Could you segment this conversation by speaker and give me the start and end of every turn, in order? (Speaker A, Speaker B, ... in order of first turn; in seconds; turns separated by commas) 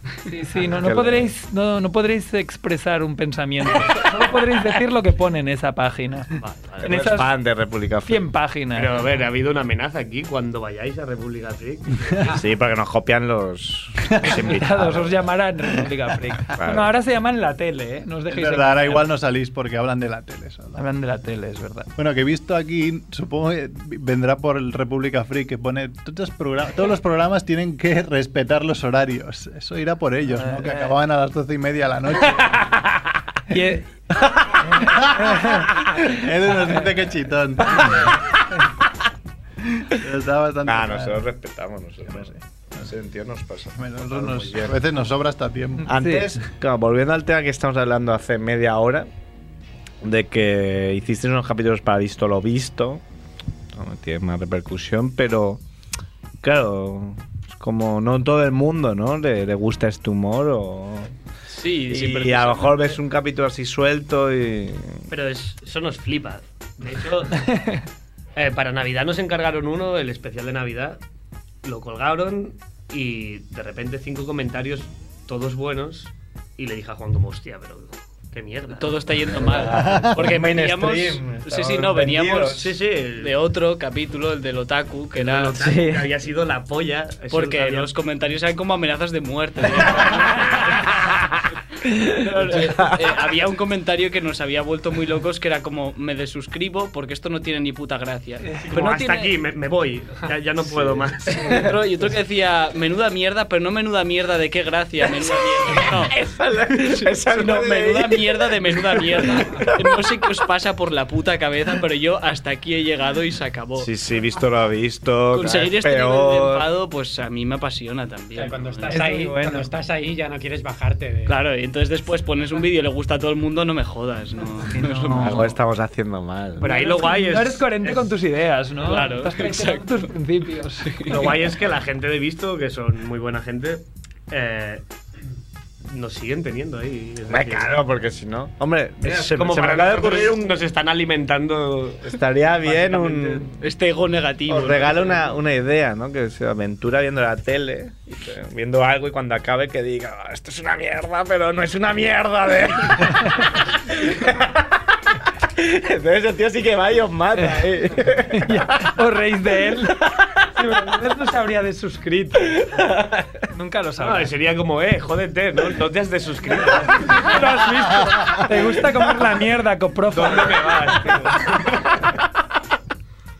Speaker A: 0.3-7.3, Speaker B: 0.7-1.3, Speaker C: 6.5-7.0, Speaker B: 6.8-8.3, Speaker A: 8.0-9.0, Speaker C: 8.7-12.4, Speaker B: 12.3-15.2, Speaker A: 14.3-19.1, Speaker B: 16.5-16.9, Speaker D: 18.3-20.8, Speaker A: 20.7-21.9, Speaker D: 21.9-32.6, Speaker A: 30.3-30.9, Speaker B: 32.5-32.8, Speaker A: 33.5-33.9, Speaker A: 34.6-36.0, Speaker D: 34.8-38.2, Speaker B: 37.7-38.2, Speaker D: 39.6-41.2, Speaker B: 40.6-44.8, Speaker D: 42.1-42.9, Speaker D: 43.8-45.9, Speaker A: 45.8-46.3, Speaker B: 45.9-49.1, Speaker B: 50.0-53.0, Speaker B: 53.7-55.6, Speaker B: 56.4-61.1, Speaker E: 61.5-63.0, Speaker B: 61.9-65.1, Speaker C: 65.1-67.4, Speaker A: 67.5-67.8, Speaker C: 68.4-71.0, Speaker C: 71.6-79.2, Speaker E: 78.7-85.6, Speaker B: 79.3-82.8, Speaker D: 79.8-80.2, Speaker C: 82.5-83.4, Speaker C: 85.2-87.9, Speaker A: 85.6-86.1, Speaker E: 87.3-90.9, Speaker E: 92.2-99.3, Speaker B: 92.2-93.1, Speaker C: 98.7-101.7, Speaker B: 100.7-101.6, Speaker E: 101.4-106.2, Speaker B: 105.6-110.4, Speaker E: 106.8-113.9, Speaker B: 113.8-116.7, Speaker E: 115.3-119.1, Speaker F: 118.3-121.4, Speaker A: 118.9-119.7, Speaker E: 121.2-125.5, Speaker A: 124.7-125.5, Speaker B: 125.1-126.7, Speaker C: 126.6-128.2, Speaker A: 126.6-131.2, Speaker E: 128.8-129.9, Speaker E: 130.8-131.4, Speaker C: 131.1-134.8, Speaker C: 135.8-137.8, Speaker B: 137.3-140.6, Speaker C: 139.0-143.5, Speaker B: 142.0-143.6, Speaker E: 143.6-145.1, Speaker B: 144.5-158.9, Speaker A: 158.3-162.6, Speaker B: 159.8-160.4, Speaker B: 162.5-163.3, Speaker A: 163.5-164.3, Speaker C: 164.0-167.3, Speaker A: 167.0-170.9, Speaker B: 170.1-171.6, Speaker C: 170.2-171.9